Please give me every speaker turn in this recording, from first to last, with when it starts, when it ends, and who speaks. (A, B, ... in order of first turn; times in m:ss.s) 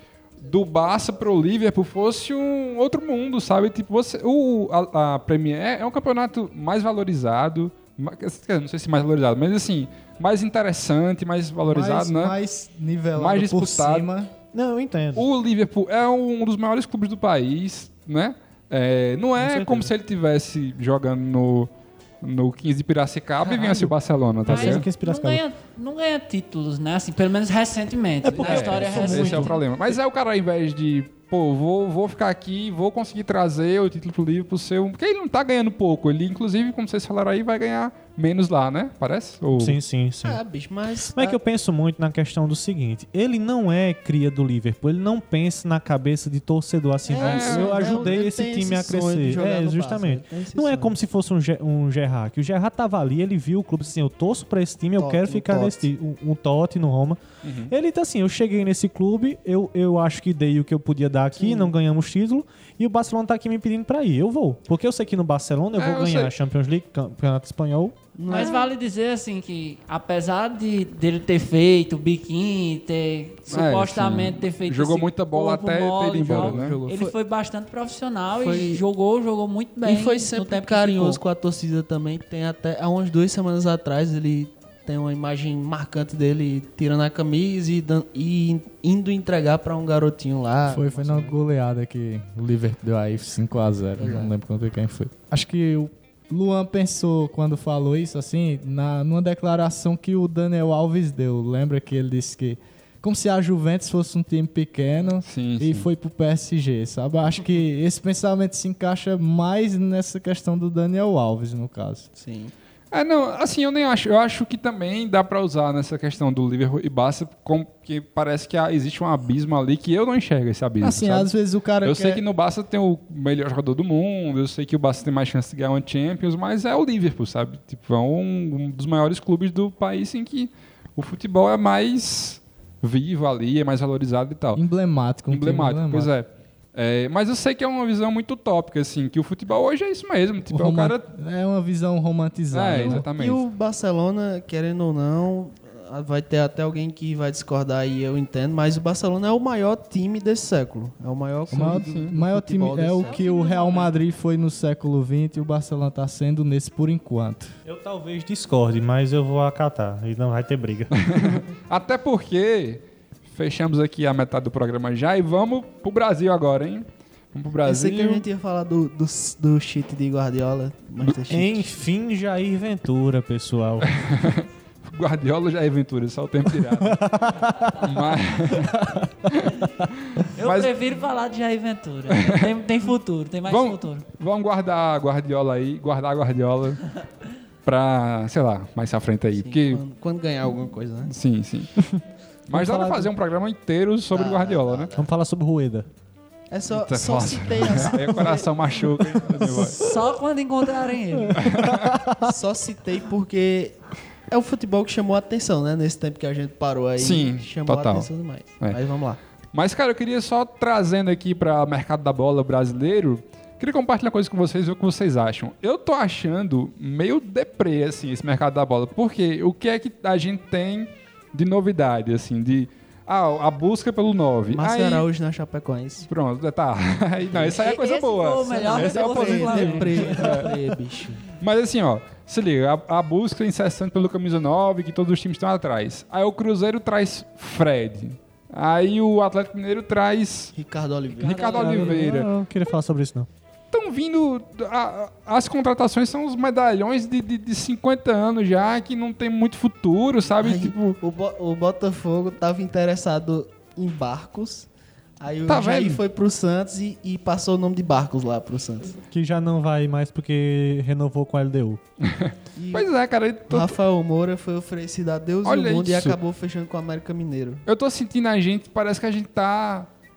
0:00.4-0:12.4 A
0:11.6-0:14.3 B
0:13.1-0:14.1 A
0:14.5-0:15.3 C
0:15.1-0:21.7 A
0:19.4-0:19.9 C
0:22.2-0:24.8 A
0:23.5-0:23.9 D
0:24.4-0:25.4 C
0:24.5-0:29.6 D
0:28.2-0:29.9 C
0:28.4-0:39.8 A
0:39.5-0:40.4 C
0:40.2-0:41.4 E
0:41.1-1:08.0 C
0:47.0-0:50.9 E
0:47.1-0:48.1 A
0:55.0-0:55.9 E
0:57.4-0:57.7 A
1:01.3-1:01.7 E
1:05.7-1:06.3 A
1:08.2-1:08.7 E
1:08.3-1:21.2 D
1:13.5-1:16.9 A
1:16.3-1:17.1 E
1:18.3-1:18.8 E
1:19.8-1:31.4 E
1:30.7-1:52.1 B
1:34.0-1:34.3 E
1:45.2-1:45.9 A
1:52.2-1:52.5 E
1:52.9-2:01.3 A
2:00.8-2:02.2 B
2:01.8-2:14.6 A
2:14.5-2:16.1 B
2:15.3-2:21.1 A
2:20.5-2:23.0 B
2:22.5-2:23.4 A
2:22.8-2:33.9 E
2:31.5-2:32.1 A
2:31.5-2:37.5 B
2:33.0-2:33.9 D
2:37.6-2:41.0 C
2:40.9-2:48.2 A
2:47.6-2:51.7 E
2:51.3-2:53.9 C
2:53.8-2:57.2 A
2:56.8-2:57.7 C
2:57.8-3:00.7 A
3:00.4-3:04.0 D
3:02.1-3:02.5 A
3:03.5-3:06.8 A
3:07.6-3:09.8 A
3:09.4-3:11.1 E
3:11.1-3:11.7 A
3:11.8-3:13.1 C
3:12.5-3:14.9 A
3:14.1-3:15.1 E
3:15.0-3:15.9 C
3:16.5-3:18.5 E
3:16.7-3:19.8 A
3:19.4-3:19.9 C
3:19.7-3:21.4 D
3:21.2-3:22.3 C
3:21.4-3:22.0 A
3:22.2-3:23.8 E
3:24.3-3:29.2 E
3:27.0-3:28.1 A
3:29.5-3:45.1 A
3:44.5-3:46.1 E
3:46.1-3:50.6 A
3:47.6-3:50.4 D
3:48.5-3:51.2 E
3:51.4-4:00.5 A
4:00.5-4:02.0 E
4:01.2-4:02.3 A
4:01.4-4:03.3 C
4:03.7-4:10.9 A
4:10.4-4:14.7 E
4:15.2-4:19.0 E
4:15.5-4:16.0 A
4:19.1-4:21.8 C
4:22.0-4:23.8 A
4:22.6-4:22.9 E
4:23.5-4:27.6 E
4:25.4-4:26.2 A
4:27.7-4:29.9 A